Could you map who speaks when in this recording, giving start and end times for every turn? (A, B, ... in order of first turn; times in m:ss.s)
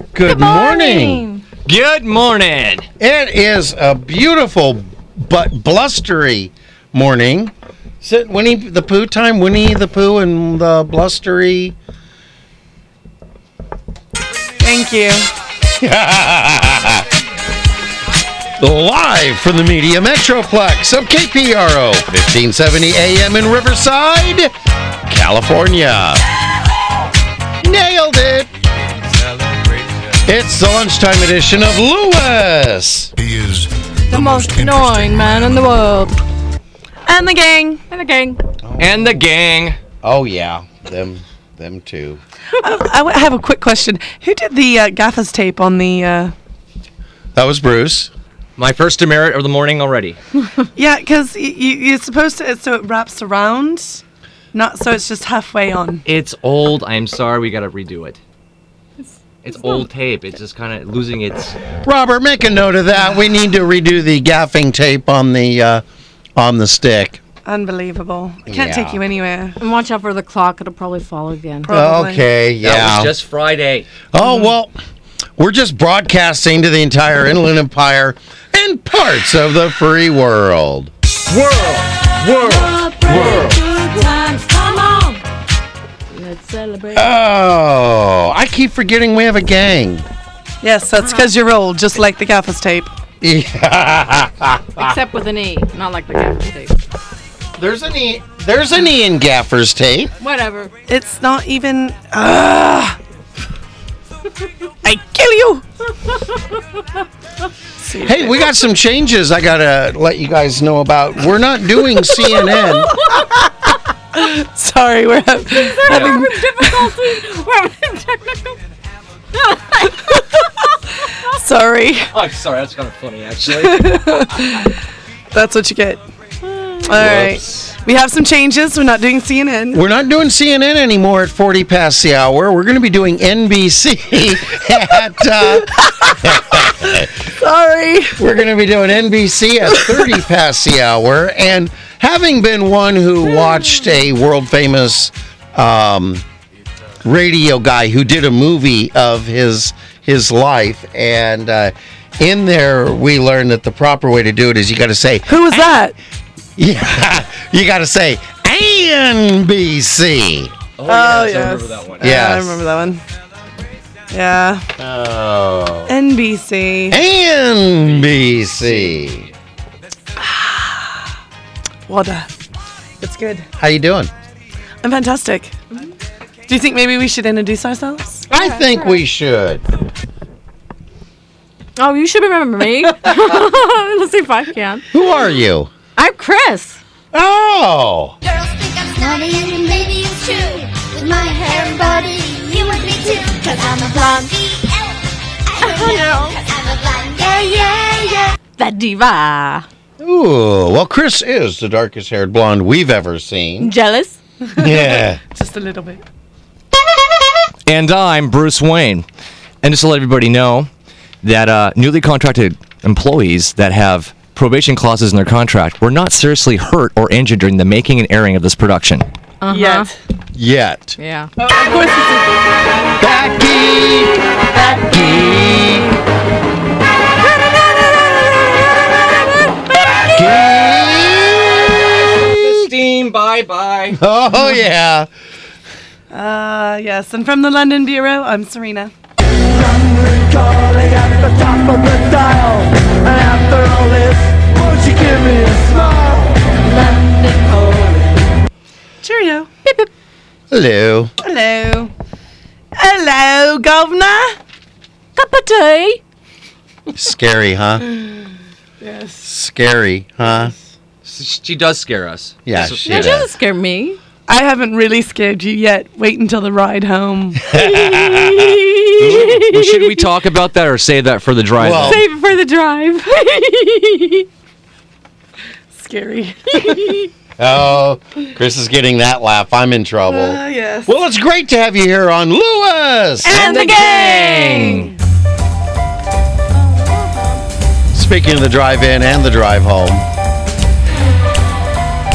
0:00.1-0:01.3 A
0:00.2-0:01.4 B
0:01.7-0:02.9 C
0:03.0-0:11.8 A
0:14.6-0:15.3 D
0:15.8-0:17.0 A
0:18.6-0:24.5 A
0:25.1-0:26.2 A
0:27.6-0:28.5 A
0:30.2-0:33.1 A
0:33.2-0:35.6 E
0:34.1-0:36.2 B
0:37.1-0:37.8 D
0:37.9-0:38.4 B
0:38.6-0:39.2 A
0:38.8-0:39.8 C
0:40.0-0:42.2 A
0:42.6-0:46.3 D
0:47.4-0:48.1 A
0:48.6-0:50.2 C
0:50.8-0:54.0 D
0:54.5-0:56.0 D
0:56.1-0:58.2 C
0:59.4-1:01.6 C
1:01.8-1:05.8 A
1:06.4-1:07.2 A
1:07.4-1:09.6 D
1:08.5-1:09.0 A
1:09.6-1:11.7 B
1:11.6-1:12.3 D
1:11.7-1:13.2 A
1:12.6-1:13.9 C
1:14.1-1:14.7 A
1:15.4-1:20.9 A
1:21.3-1:23.6 C
1:22.4-1:25.2 B
1:23.2-1:23.5 A
1:26.1-1:27.1 B
1:26.9-1:30.1 A
1:30.6-1:32.9 D
1:31.0-1:31.3 B
1:33.2-1:35.0 A
1:34.8-1:36.8 B
1:37.6-1:40.1 A
1:40.2-1:40.7 B
1:40.9-1:43.0 D
1:44.8-1:45.6 D
1:47.8-1:48.5 D
1:48.0-1:53.0 A
1:54.1-1:56.9 D
1:55.5-1:58.6 B
1:55.8-1:56.2 C
1:59.4-2:00.2 B
2:01.3-2:02.1 D
2:02.1-2:04.3 C
2:03.6-2:04.7 D
2:05.3-2:06.0 D
2:06.4-2:06.9 B
2:06.9-2:09.8 D
2:07.0-2:07.4 A
2:09.7-2:17.1 A
2:15.7-2:18.2 D
2:18.2-2:26.2 A
2:27.0-2:35.8 A
2:35.3-2:35.9 D
2:36.6-2:40.5 A
2:40.8-2:42.1 C
2:40.9-2:43.0 D
2:42.0-2:42.6 A
2:44.1-2:44.7 D
2:44.8-2:45.9 A
2:45.9-2:47.0 D
2:46.9-2:49.3 A
2:48.6-2:49.3 C
2:50.2-2:50.9 D
2:51.9-2:52.4 D
2:53.0-2:53.5 D
2:53.6-2:54.1 A
2:54.8-2:55.6 D
2:56.5-2:58.6 D
2:58.3-2:59.6 A
3:01.8-3:04.9 B
3:04.9-3:05.7 A
3:06.0-3:06.8 B
3:07.1-3:08.2 A
3:08.2-3:18.3 F
3:09.0-3:09.8 B
3:11.1-3:12.1 B
3:13.5-3:14.3 B
3:15.6-3:16.4 B
3:17.2-3:17.8 B
3:18.6-3:19.7 B
3:20.0-3:23.7 A
3:23.6-3:24.2 B
3:24.5-3:26.0 D
3:24.6-3:25.2 A
3:27.7-3:29.0 C
3:29.6-3:30.7 C
3:31.2-3:39.1 C
3:39.4-3:39.9 B
3:39.5-3:39.9 D
3:40.3-3:41.0 A
3:41.0-3:41.3 B
3:41.4-3:42.5 D
3:43.0-3:46.0 A
3:50.2-3:51.7 A
3:51.9-3:54.0 C
3:53.9-3:55.1 A
3:56.1-3:58.9 D
4:00.6-4:06.3 D
4:06.6-4:08.0 B
4:09.0-4:09.5 D
4:10.5-4:11.1 A
4:11.2-4:11.9 D
4:12.8-4:14.4 D
4:15.2-4:16.0 B
4:17.0-4:17.8 A
4:18.8-4:19.3 D
4:19.2-4:20.5 A
4:20.2-4:20.6 D
4:21.0-4:23.2 C
4:22.5-4:23.3 A
4:22.8-4:24.0 B
4:24.3-4:27.4 D
4:27.5-4:28.6 A
4:27.5-4:30.0 B
4:29.0-4:32.0 C
4:31.6-4:32.0 A
4:31.8-4:34.3 B
4:35.8-4:36.7 D
4:36.5-4:37.1 B
4:37.4-4:43.6 A
4:40.1-4:40.9 D
4:43.3-4:44.9 D
4:43.3-4:44.6 B
4:43.4-4:44.9 C
4:46.6-4:47.4 B
4:47.9-4:50.0 A